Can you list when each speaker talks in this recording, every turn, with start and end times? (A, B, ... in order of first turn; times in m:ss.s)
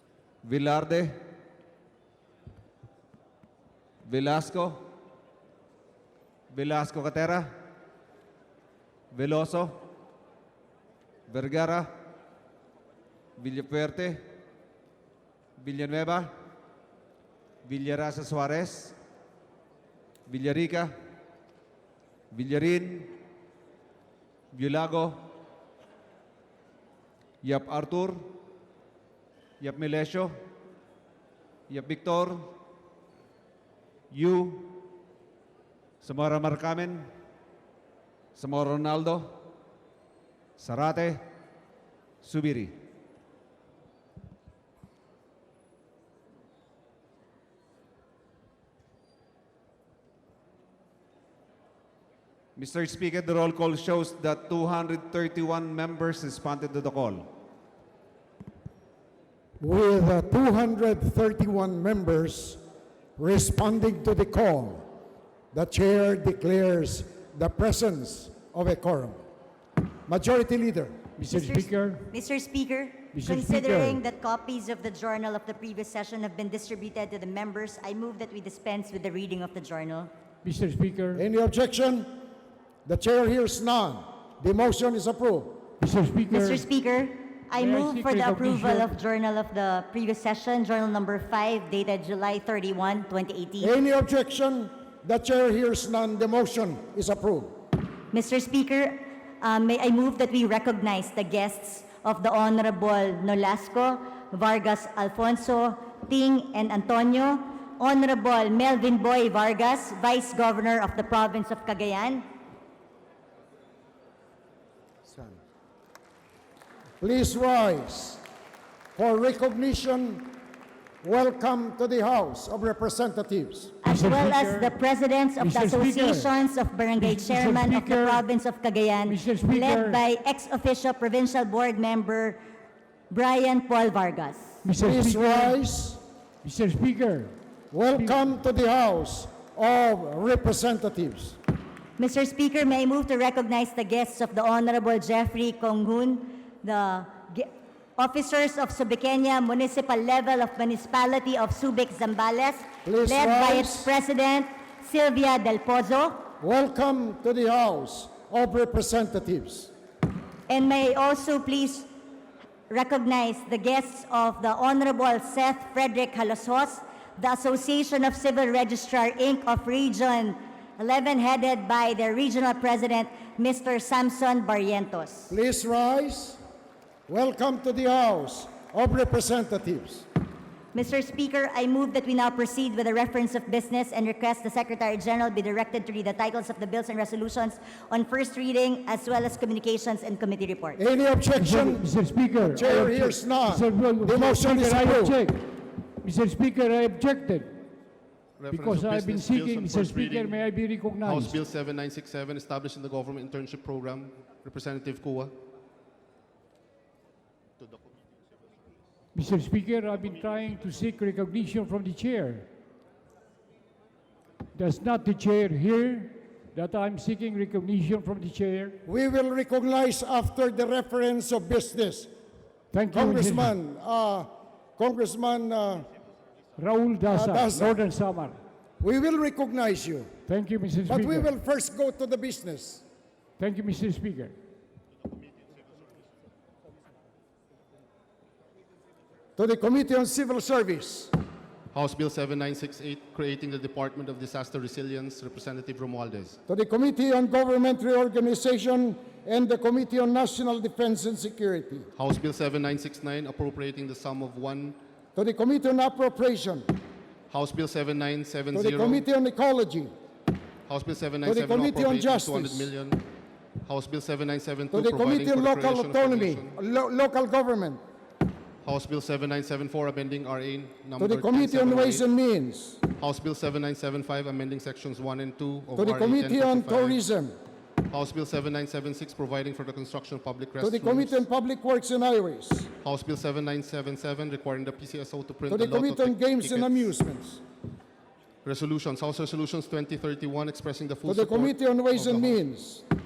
0:00.4-0:01.2 A
0:04.1-0:04.8 A
0:06.5-0:07.6 A
0:09.1-0:09.8 A
0:11.3-0:11.9 A
0:13.4-0:14.2 A
0:15.6-0:16.3 A
0:17.6-0:19.0 A
0:20.3-0:20.9 A
0:22.3-0:23.1 A
0:24.5-0:25.2 A
0:27.4-0:28.2 A
0:29.6-0:30.3 A
0:31.7-0:32.5 A
0:34.1-0:34.8 A
0:36.0-0:37.1 A
0:38.4-0:39.3 A
0:40.6-0:41.2 A
0:42.2-0:42.7 A
0:52.6-0:57.3 A
0:59.6-1:02.6 B
1:03.2-1:04.8 B
1:05.5-1:09.2 B
1:10.1-1:11.0 B
1:11.2-1:12.1 C
1:11.3-1:20.1 D
1:13.1-1:14.0 C
1:20.4-1:21.2 C
1:21.2-1:22.1 B
1:22.9-1:25.7 B
1:25.8-1:26.6 C
1:26.3-1:33.7 D
1:27.5-1:29.0 C
1:33.6-1:37.5 B
1:38.1-1:52.3 D
1:55.1-1:55.4 B
1:57.0-1:58.2 B
1:59.0-2:00.4 B
2:01.0-2:03.8 B
2:03.8-2:12.4 D
2:03.9-2:04.8 C
2:05.4-2:06.4 C
2:07.0-2:08.2 C
2:09.0-2:10.0 C
2:13.1-2:14.6 D
2:14.6-2:15.6 C
2:14.8-2:16.0 B
2:16.4-2:17.4 C
2:17.7-2:21.4 B
2:17.9-2:18.2 C
2:22.0-2:36.3 D
2:32.8-2:33.9 B
2:36.4-2:39.7 B
2:40.5-2:41.9 D
2:42.7-2:55.3 D
2:55.3-2:56.4 B
2:57.1-3:00.1 B
3:00.7-3:10.8 D
3:10.8-3:11.9 B
3:11.4-3:15.5 C
3:12.4-3:15.2 B
3:16.0-3:17.6 C
3:18.4-3:20.4 E
3:18.5-3:21.4 C
3:21.0-3:25.3 E
3:29.2-3:32.5 C
3:34.6-3:38.8 C
3:38.9-3:42.1 B
3:42.7-3:43.5 C
3:42.9-3:45.9 B
3:46.6-3:48.4 C
3:47.1-3:47.8 B
3:48.8-3:50.1 B
3:50.3-3:51.3 C
3:50.9-3:52.8 B
3:53.4-3:54.4 C
3:59.4-4:01.1 B
4:01.7-4:06.4 E
4:06.5-4:11.9 B
4:12.0-4:14.8 E
4:15.2-4:16.7 B
4:17.3-4:19.1 E
4:18.5-4:19.9 B
4:20.7-4:23.1 E
4:21.2-4:22.7 B
4:23.6-4:26.6 E
4:24.7-4:27.8 B
4:28.6-4:32.0 E
4:31.0-4:32.8 B
4:33.0-4:37.0 E
4:35.8-4:37.4 B
4:37.8-4:41.2 E
4:40.6-4:42.7 B
4:42.8-4:46.9 E
4:45.5-4:47.4 B
4:48.4-4:52.4 E
4:51.1-4:52.8 B